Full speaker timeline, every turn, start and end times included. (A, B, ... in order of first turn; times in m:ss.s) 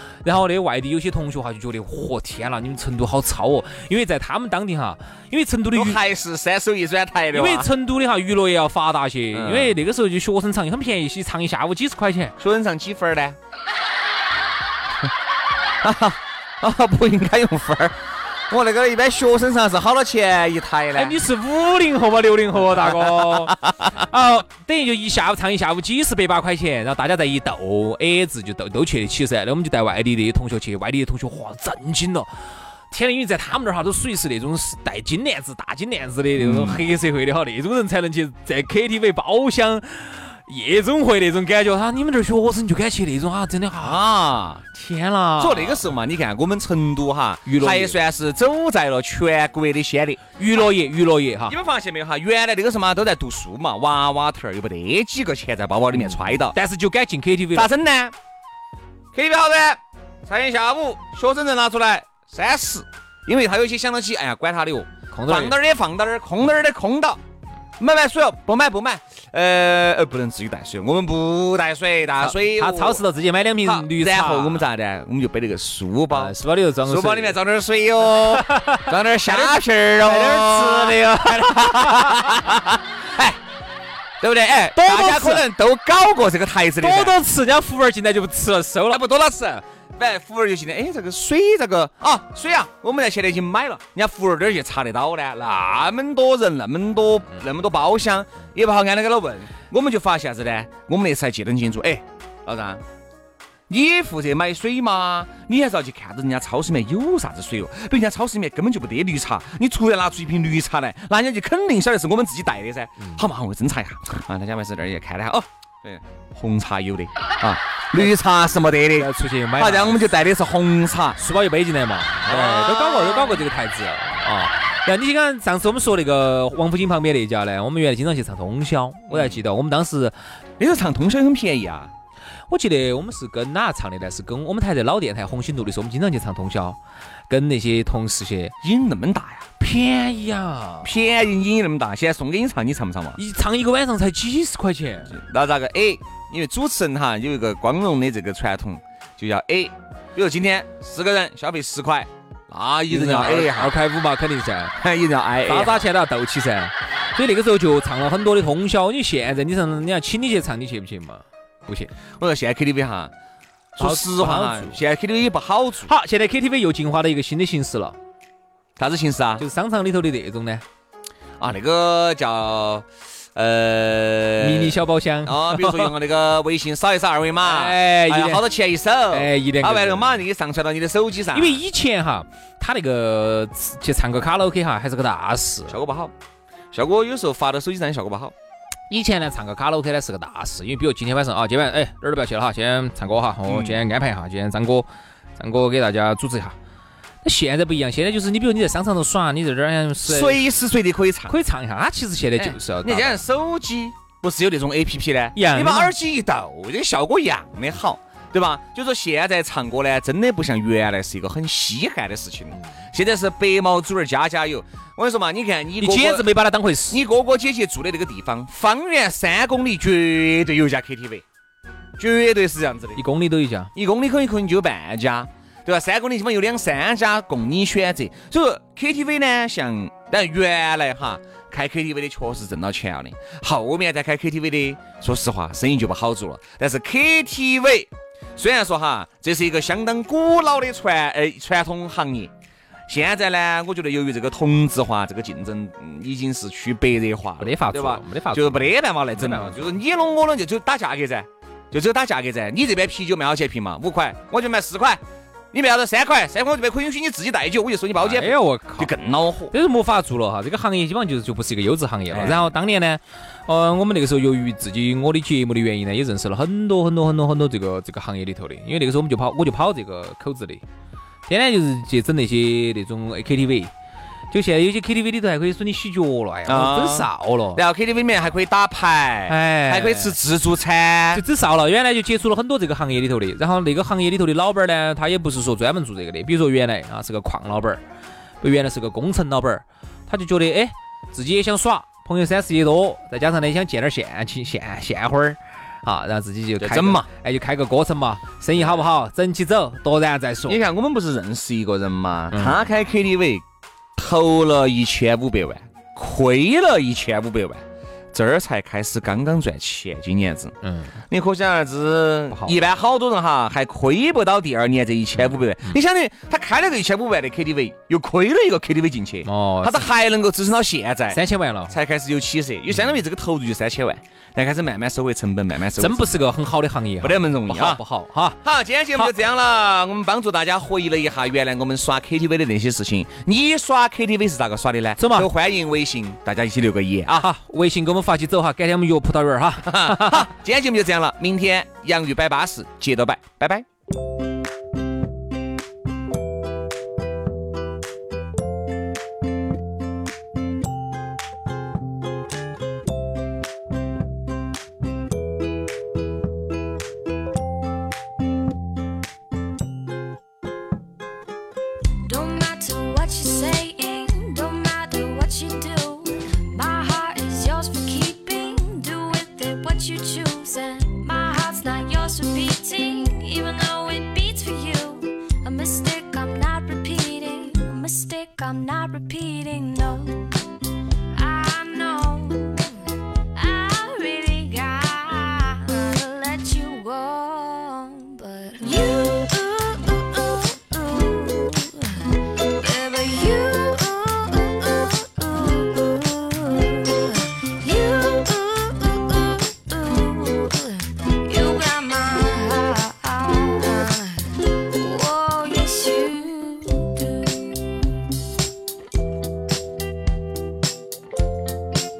0:00.2-0:06.0 A
0:05.7-0:07.7 B
0:07.3-0:12.3 A
0:09.3-0:09.7 B
0:12.4-0:13.4 B
0:15.8-0:18.0 B
0:18.5-0:21.2 B
0:21.0-0:32.3 A
0:22.8-0:23.8 B
0:32.9-0:44.0 A
0:36.4-0:36.8 B
0:43.8-0:44.6 B
0:44.7-0:45.9 A
0:45.4-0:50.2 B
0:47.4-0:48.0 A
0:50.4-0:51.5 A
0:51.5-0:56.6 B
0:55.9-0:57.7 A
0:57.5-0:58.1 B
0:59.1-1:07.2 B
1:05.1-1:05.5 A
1:07.8-1:13.0 B
1:12.2-1:14.6 A
1:13.6-1:23.4 B
1:16.1-1:17.4 A
1:18.3-1:22.4 A
1:24.2-1:27.1 B
1:24.7-1:25.4 A
1:26.8-1:29.0 A
1:28.9-1:42.8 B
1:43.7-2:01.2 B
1:59.0-2:00.1 A
2:01.2-2:10.1 A
2:02.2-2:03.4 B
2:09.1-2:09.4 B
2:10.6-2:11.9 B
2:12.5-2:16.8 A
2:17.3-2:18.5 A
2:18.6-2:19.5 B
2:19.6-2:20.9 A
2:20.8-2:23.2 B
2:23.2-2:25.2 A
2:25.1-2:33.8 B
2:32.9-2:34.7 A
2:34.8-2:35.9 B
2:35.5-2:41.9 A
2:42.2-2:43.1 B
2:43.7-2:45.9 B
2:43.8-2:44.8 A
2:45.8-2:48.0 A
2:48.8-2:49.4 B
2:49.4-2:50.6 A
2:51.4-3:01.6 B
2:54.4-2:55.9 A
2:57.4-2:58.5 A
2:59.1-3:00.2 A
3:01.3-3:05.8 A
3:05.7-3:06.1 B
3:06.7-3:08.3 B
3:08.9-3:16.5 A
3:13.5-3:13.8 B
3:17.2-3:20.4 A
3:20.0-3:21.3 B
3:21.3-3:23.2 A
3:22.4-3:36.3 B
3:25.3-3:25.9 A
3:35.8-3:37.0 A
3:36.9-3:41.2 B
3:42.0-3:43.0 B
3:43.0-3:43.7 A
3:43.7-4:02.3 B
4:02.9-4:15.0 B
4:07.4-4:09.6 A
4:15.5-4:19.5 B
4:18.0-4:18.9 A
4:19.5-4:30.6 A
4:22.1-4:22.5 B
4:31.3-4:33.7 A
4:34.3-4:37.6 A
4:36.5-4:41.2 B
4:39.3-4:40.2 A
4:41.1-4:47.8 A
4:48.4-5:00.6 A
4:56.6-4:57.1 B
5:00.5-5:03.4 B
5:02.3-5:02.6 A
5:04.0-5:10.5 B
5:10.6-5:10.9 A
5:11.1-5:26.3 B
5:15.2-5:15.7 A
5:19.2-5:19.9 A
5:21.1-5:21.7 A
5:25.8-5:28.4 A
5:27.0-5:27.8 B
5:28.4-5:37.3 B
5:35.0-5:35.3 A
5:37.2-5:40.3 A
5:39.6-5:43.6 B
6:02.0-6:20.3 C
6:21.1-6:47.8 C